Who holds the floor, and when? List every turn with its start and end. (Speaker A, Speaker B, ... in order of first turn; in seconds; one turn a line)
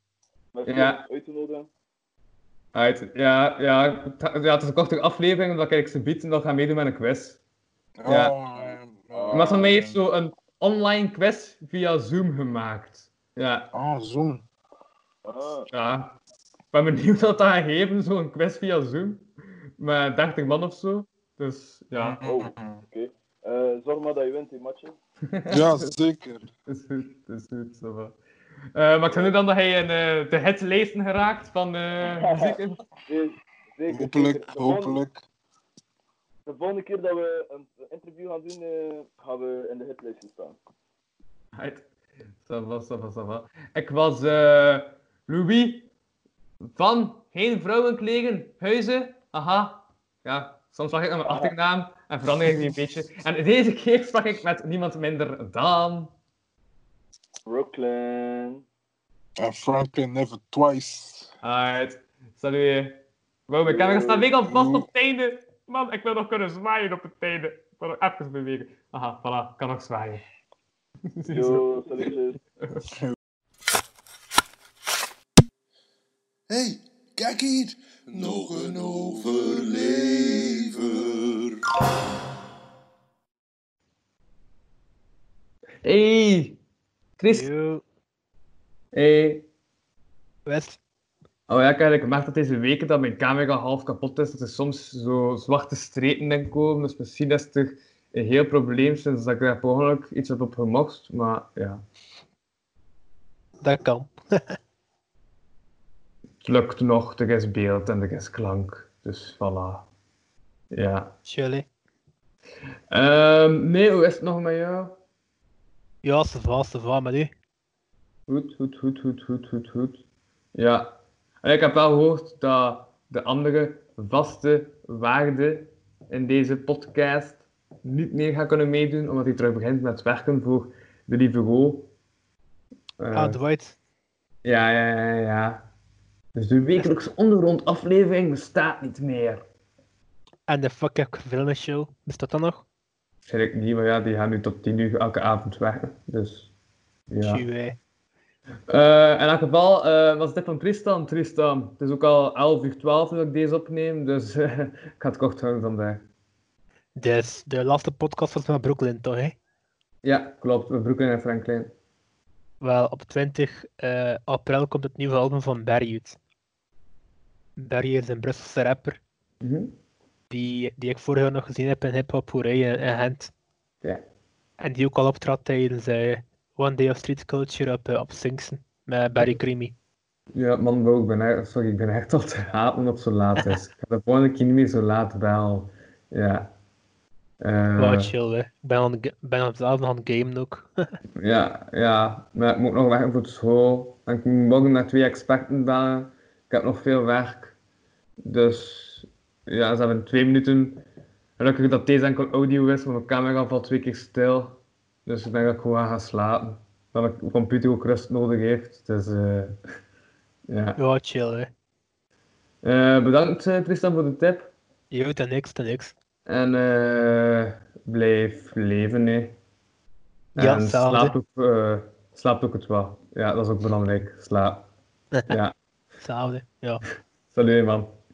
Speaker A: 0.5-1.7
Speaker B: 0.7-1.0
Speaker B: 2.7-7.4
Speaker C: 8.0-10.0
Speaker B: 8.1-8.3
Speaker A: 8.5-9.7
Speaker B: 9.3-13.7
Speaker C: 13.7-14.4
Speaker A: 15.2-15.7
Speaker B: 15.7-16.2
Speaker B: 16.7-22.2
Speaker C: 21.9-22.8
Speaker A: 22.2-24.9
Speaker B: 25.3-25.9
Speaker C: 25.5-26.5
Speaker B: 26.7-28.1
Speaker B: 28.7-32.8
Speaker A: 32.1-35.0
Speaker C: 33.9-35.2
Speaker A: 36.5-40.6
Speaker B: 41.6-41.8
Speaker B: 42.4-45.9
Speaker B: 46.7-56.1
Speaker A: 51.2-51.5
Speaker A: 57.5-58.6
Speaker C: 59.4-61.3
Speaker B: 61.4-70.2
Speaker A: 63.6-64.3
Speaker C: 64.5-64.9
Speaker B: 71.2-71.6
Speaker A: 71.3-72.4
Speaker C: 72.9-73.2
Speaker D: 76.5-81.6
Speaker B: 85.8-86.6
Speaker B: 87.2-87.5
Speaker E: 87.3-87.8
Speaker B: 88.9-89.5
Speaker E: 90.5-90.8
Speaker B: 91.5-101.8
Speaker E: 103.6-104.6
Speaker B: 106.4-109.8
Speaker B: 110.7-111.1
Speaker E: 111.2-111.7
Speaker B: 112.9-115.0
Speaker E: 116.0-117.3
Speaker B: 118.3-120.0
Speaker B: 120.5-120.9
Speaker B: 121.4-131.9
Speaker B: 133.0-133.4
Speaker E: 133.1-133.8
Speaker B: 134.4-135.6
Speaker B: 136.3-139.4
Speaker E: 140.5-142.7
Speaker B: 143.2-146.5
Speaker B: 147.1-147.4
Speaker E: 147.2-147.8
Speaker B: 148.7-156.0
Speaker E: 157.0-159.4
Speaker B: 160.0-161.7
Speaker E: 162.6-166.2
Speaker E: 167.6-169.0
Speaker B: 169.4-169.7
Speaker E: 170.3-173.3
Speaker E: 174.6-179.7
Speaker B: 180.3-186.5
Speaker B: 187.4-188.1
Speaker E: 187.8-190.8
Speaker B: 191.2-197.5
Speaker B: 198.2-200.8
Speaker B: 201.4-209.6
Speaker B: 210.5-210.8
Speaker E: 210.8-211.5
Speaker B: 212.6-214.5
Speaker E: 214.9-215.9
Speaker B: 216.2-219.3
Speaker B: 220.3-224.7
Speaker E: 220.4-221.2
Speaker E: 225.1-225.4
Speaker B: 225.3-225.5
Speaker E: 226.0-226.8
Speaker B: 227.3-227.9